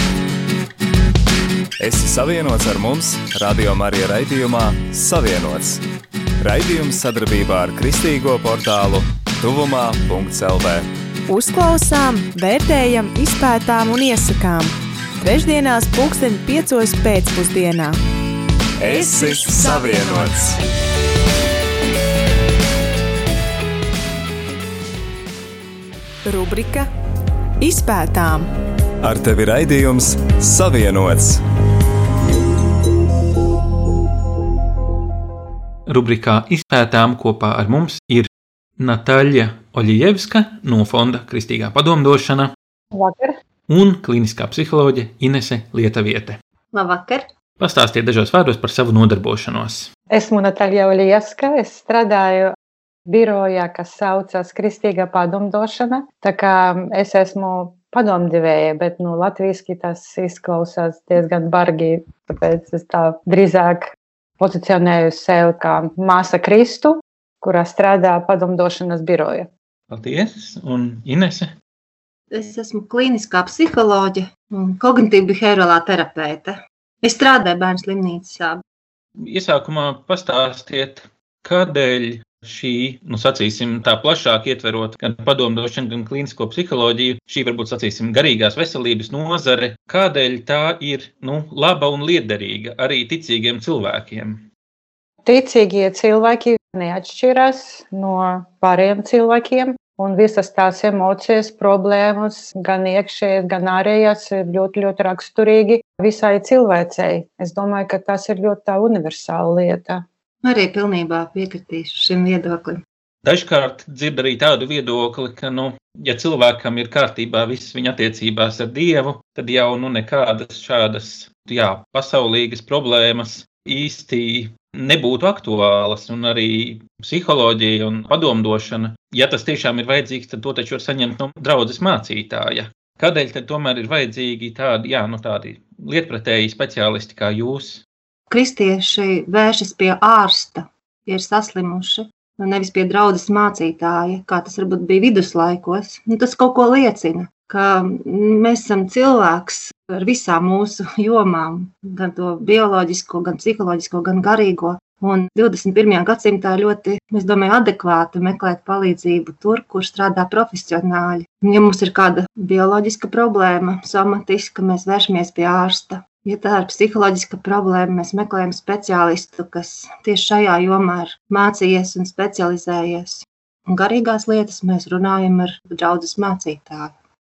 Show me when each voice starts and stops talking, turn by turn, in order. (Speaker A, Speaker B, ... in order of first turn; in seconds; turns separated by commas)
Speaker A: 1.8-5.8, Speaker A: 6.4-10.9, Speaker B: 11.3-18.0, Speaker A: 18.8-20.5, Speaker B: 19.2-20.0, Speaker B: 26.2-26.9, Speaker B: 27.6-28.5, Speaker A: 29.0-31.4, Speaker C: 35.9-42.5, Speaker D: 42.9-43.4, Speaker C: 43.7-46.4, Speaker E: 46.7-47.3, Speaker C: 47.6-49.9, Speaker D: 50.1-52.5, Speaker D: 53.1-69.5, Speaker C: 69.9-71.5, Speaker E: 72.3-78.6, Speaker C: 79.2-94.5, Speaker D: 95.2-110.0, Speaker E: 110.4-112.8, Speaker C: 113.2-137.8, Speaker E: 138.3-176.9